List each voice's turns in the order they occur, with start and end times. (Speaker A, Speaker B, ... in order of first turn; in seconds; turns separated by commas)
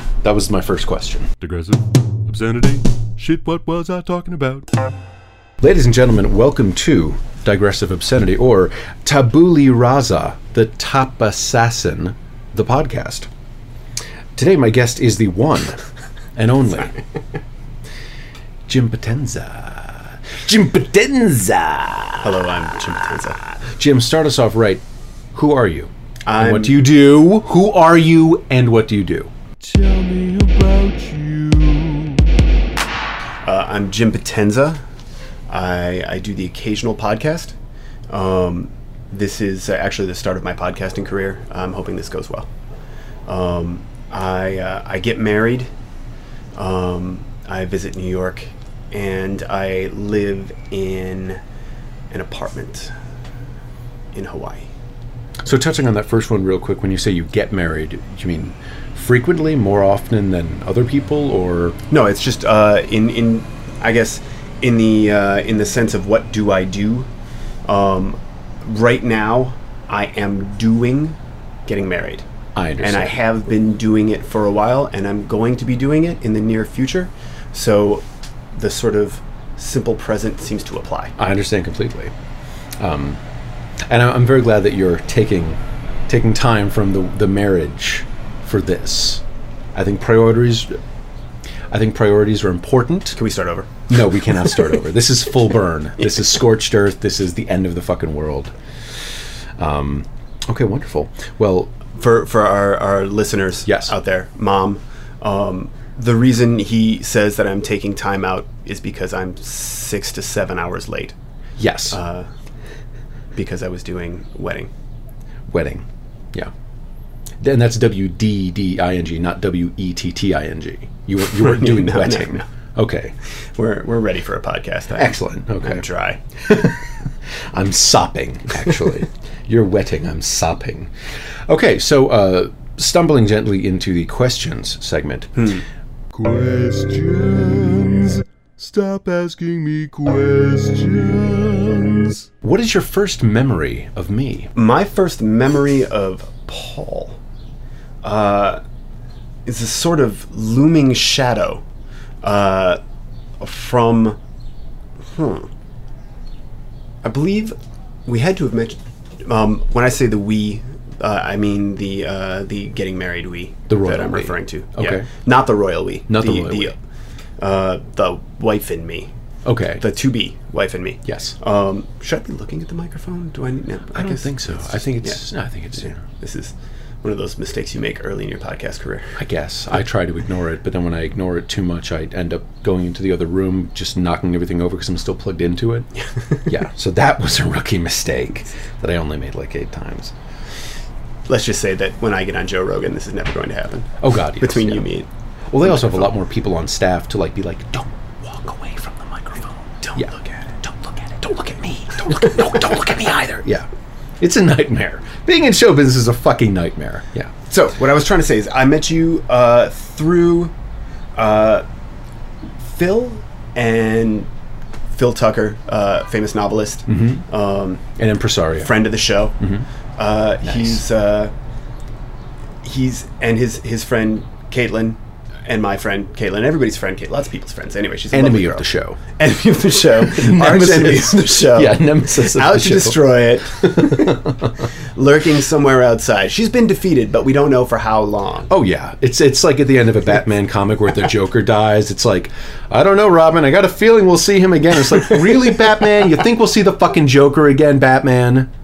Speaker A: 0.2-1.3, Speaker B: 1.4-4.7, Speaker A: 5.6-13.3, Speaker A: 14.3-15.8, Speaker A: 16.4-16.9, Speaker A: 18.7-22.3, Speaker C: 22.2-23.4, Speaker A: 23.6-24.8, Speaker A: 25.3-29.3, Speaker C: 26.2-26.8, Speaker B: 29.6-32.2, Speaker C: 33.4-34.8, Speaker C: 35.5-37.5, Speaker C: 38.1-42.5, Speaker C: 43.2-45.7, Speaker C: 46.5-51.4, Speaker C: 52.1-52.9, Speaker C: 54.1-54.7, Speaker A: 55.4-61.8, Speaker C: 61.9-67.1, Speaker C: 67.7-72.2, Speaker A: 72.5-73.2, Speaker C: 72.8-81.1, Speaker A: 81.2-82.1, Speaker A: 82.8-83.2, Speaker A: 83.9-89.2, Speaker A: 89.7-90.8, Speaker A: 91.7-93.2, Speaker C: 93.2-93.7, Speaker A: 93.9-98.5, Speaker A: 99.6-101.7, Speaker C: 101.9-111.1, Speaker A: 103.7-103.9, Speaker A: 111.6-112.0, Speaker C: 111.9-112.3, Speaker C: 113.3-114.7, Speaker A: 115.5-116.5, Speaker A: 117.4-123.1, Speaker C: 121.3-122.5, Speaker C: 123.5-126.2, Speaker A: 124.9-125.8, Speaker A: 126.4-126.9, Speaker A: 127.5-130.9, Speaker A: 131.5-135.3, Speaker C: 135.4-135.6, Speaker B: 136.1-142.3, Speaker A: 142.4-144.5, Speaker C: 144.5-147.2, Speaker C: 148.0-148.6, Speaker C: 149.4-151.6, Speaker C: 152.2-152.8, Speaker C: 153.4-154.2, Speaker C: 155.1-155.5, Speaker C: 157.0-166.8, Speaker A: 163.7-165.1, Speaker A: 166.1-166.7, Speaker C: 167.4-169.1, Speaker A: 169.4-169.8, Speaker C: 169.8-175.2, Speaker A: 171.0-171.3, Speaker A: 173.9-176.0, Speaker C: 176.0-179.1, Speaker A: 179.2-185.9, Speaker A: 186.4-190.1, Speaker C: 191.3-195.1, Speaker A: 194.0-194.8, Speaker A: 195.5-200.1, Speaker C: 199.8-200.5, Speaker A: 200.6-203.7, Speaker A: 204.2-207.3, Speaker C: 207.5-210.5, Speaker C: 211.2-211.6, Speaker C: 212.6-214.3, Speaker C: 214.9-217.8, Speaker A: 216.9-217.2, Speaker A: 217.9-218.8, Speaker C: 218.6-219.4, Speaker A: 219.4-219.6, Speaker C: 220.0-221.3, Speaker A: 220.4-220.8, Speaker C: 222.6-234.3, Speaker A: 228.1-229.0, Speaker A: 230.0-234.7, Speaker C: 234.9-238.5, Speaker A: 238.5-248.5